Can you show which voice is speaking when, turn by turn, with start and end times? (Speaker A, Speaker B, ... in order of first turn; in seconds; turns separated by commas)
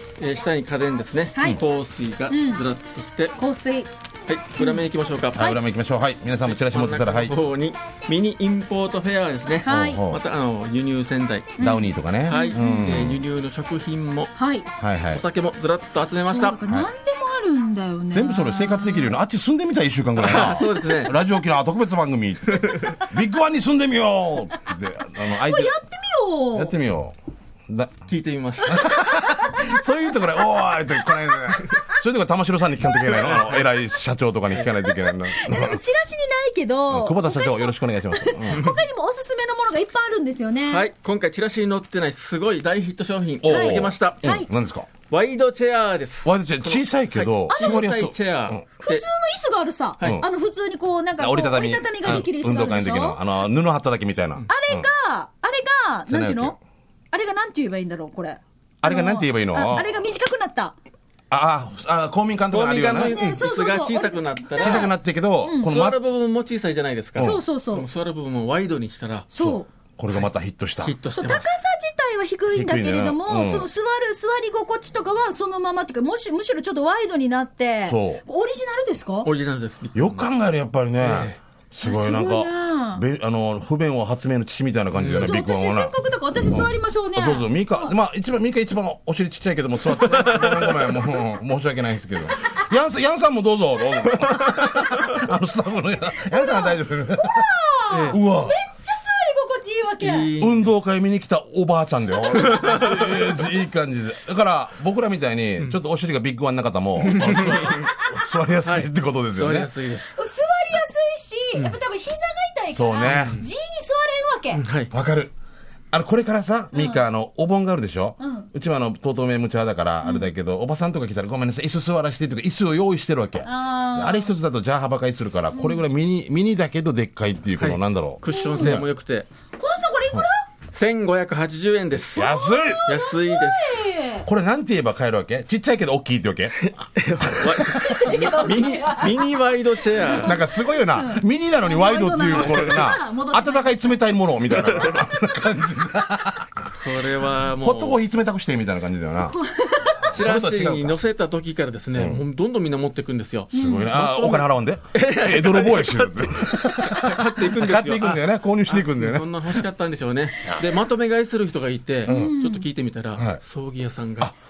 Speaker A: 0.2-3.4, Speaker B: 1.3-1.6, Speaker B: 2.3-2.6, Speaker B: 3.4-3.9, Speaker A: 4.3-5.6, Speaker B: 4.6-4.8, Speaker C: 5.3-7.4, Speaker A: 6.4-11.7, Speaker B: 9.6-10.0, Speaker C: 9.6-10.2, Speaker C: 11.6-13.2, Speaker B: 11.6-13.1, Speaker A: 12.2-14.3, Speaker B: 14.4-14.7, Speaker C: 14.8-15.2, Speaker A: 15.1-16.6, Speaker B: 16.3-19.1, Speaker C: 18.1-25.8, Speaker A: 20.2-21.1, Speaker A: 22.7-22.9, Speaker B: 25.3-26.7, Speaker C: 26.5-27.2, Speaker C: 27.7-28.0, Speaker A: 28.1-28.9, Speaker B: 28.6-29.8, Speaker C: 28.7-35.8, Speaker A: 33.1-33.7, Speaker B: 34.8-40.8, Speaker C: 36.9-38.6, Speaker A: 40.7-44.2, Speaker C: 43.4-44.9, Speaker B: 43.5-44.5, Speaker A: 45.1-49.0, Speaker C: 46.2-48.6, Speaker B: 47.5-47.9, Speaker B: 48.8-53.2, Speaker C: 50.0-50.3, Speaker C: 51.2-54.9, Speaker B: 54.5-56.6, Speaker C: 56.1-56.6, Speaker B: 57.1-60.8, Speaker C: 58.8-60.0, Speaker C: 61.3-63.2, Speaker A: 62.5-64.9, Speaker B: 63.0-64.9, Speaker C: 64.6-66.0, Speaker B: 65.4-65.7, Speaker A: 65.5-69.5, Speaker C: 67.2-67.4, Speaker B: 67.2-67.8, Speaker B: 69.3-69.7, Speaker C: 69.4-71.0, Speaker A: 70.8-71.6, Speaker B: 71.1-79.3, Speaker C: 72.5-73.7, Speaker C: 77.9-78.2, Speaker A: 79.2-80.2, Speaker C: 79.9-85.9, Speaker A: 81.0-81.4, Speaker B: 81.8-83.0, Speaker A: 84.9-85.3, Speaker B: 85.1-87.9, Speaker C: 86.5-97.5, Speaker A: 90.0-91.0, Speaker B: 92.4-92.7, Speaker A: 94.1-95.1, Speaker B: 96.2-100.3, Speaker A: 97.9-98.2, Speaker C: 98.1-98.6, Speaker A: 100.0-100.7, Speaker C: 100.4-109.7, Speaker A: 102.4-103.3, Speaker A: 107.0-107.9, Speaker B: 107.7-108.2, Speaker A: 108.6-110.2, Speaker B: 110.2-114.6, Speaker C: 112.7-113.4, Speaker A: 113.1-113.4, Speaker A: 114.5-114.9, Speaker C: 114.9-115.3, Speaker C: 115.9-128.9, Speaker B: 116.7-117.1, Speaker B: 118.2-118.5, Speaker B: 120.0-120.3, Speaker B: 123.4-124.3, Speaker B: 125.5-125.8, Speaker A: 127.6-129.3, Speaker B: 128.3-128.8, Speaker B: 129.6-130.5, Speaker A: 130.7-132.3, Speaker C: 132.2-132.8, Speaker B: 132.2-134.3, Speaker A: 132.8-133.9, Speaker C: 134.2-137.8, Speaker A: 136.6-140.4, Speaker B: 137.6-144.0, Speaker C: 140.1-146.7, Speaker A: 142.3-142.7, Speaker A: 144.6-145.0, Speaker A: 146.7-148.0, Speaker C: 147.5-149.4, Speaker B: 149.2-150.1, Speaker C: 150.1-151.0, Speaker A: 150.1-164.3, Speaker C: 151.9-152.2, Speaker B: 153.5-154.0, Speaker C: 153.5-159.6, Speaker C: 162.1-162.3, Speaker B: 162.1-162.7